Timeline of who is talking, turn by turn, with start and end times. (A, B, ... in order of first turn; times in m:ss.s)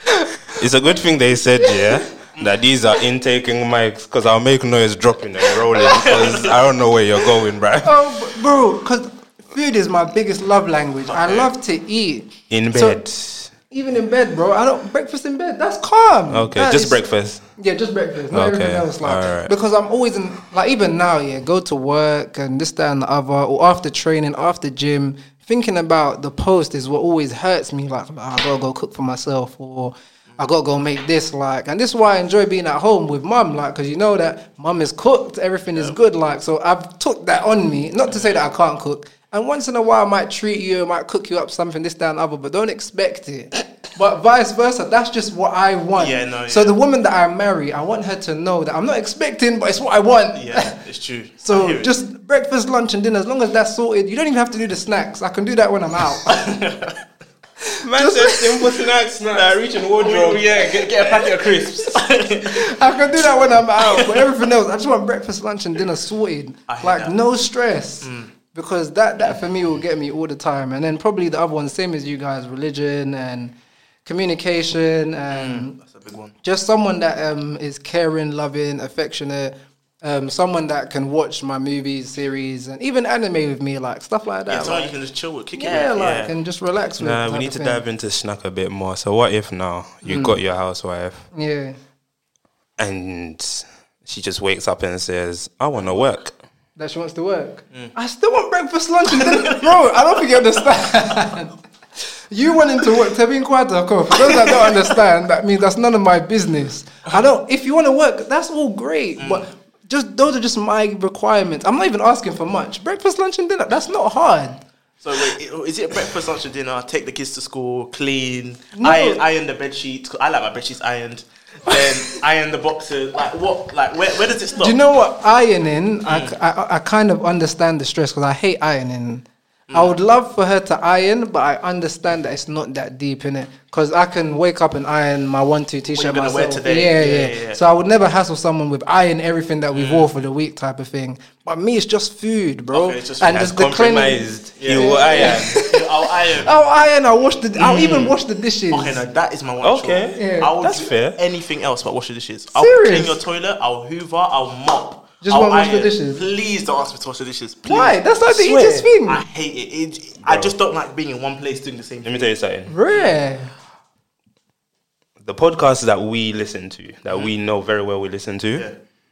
0:00.5-0:08.0 A
0:01.6-0:02.0 B
0:05.7-0:06.6 C
0:07.8-0:13.0 B
0:11.1-0:11.5 C
0:12.5-0:13.5 A
0:13.7-0:17.0 B
0:16.3-0:17.4 A
0:17.6-0:50.7 B
0:18.3-0:19.5 A
0:38.1-0:38.4 C
0:46.0-0:46.8 C
0:50.3-0:51.9 C
0:51.4-0:56.5 B
0:56.2-0:57.0 C
0:57.8-1:01.7 A
0:57.9-0:58.4 B
0:59.9-1:04.4 C
1:02.5-1:15.8 B
1:06.7-1:07.1 C
1:08.0-1:08.3 C
1:15.3-1:16.3 C
1:16.4-1:24.9 B
1:24.5-1:26.3 C
1:25.5-1:27.8 B
1:27.0-1:31.2 A
1:30.0-1:30.4 B
1:31.3-1:31.8 B
1:32.8-1:36.4 A
1:36.8-1:41.5 B
1:39.1-1:39.7 C
1:42.3-1:54.6 B
1:44.2-1:44.9 C
1:49.2-1:49.5 C
1:55.0-2:04.9 C
1:58.7-1:59.2 B
2:04.6-2:25.9 B
2:06.0-2:06.3 C
2:09.7-2:10.0 C
2:16.0-2:17.6 C
2:19.7-2:20.1 C
2:22.7-2:23.4 C
2:23.3-2:25.7 A
2:24.6-2:26.5 C
2:26.4-2:29.0 B
2:27.6-2:28.1 A
2:28.7-2:38.1 C
2:29.6-2:31.2 A
2:30.2-2:30.5 B
2:32.5-2:33.2 B
2:35.2-2:36.2 B
2:37.7-2:39.2 B
2:38.3-2:38.8 A
2:38.6-2:42.3 C
2:40.2-2:40.5 A
2:42.0-2:42.7 A
2:42.7-2:43.5 B
2:45.2-2:48.7 A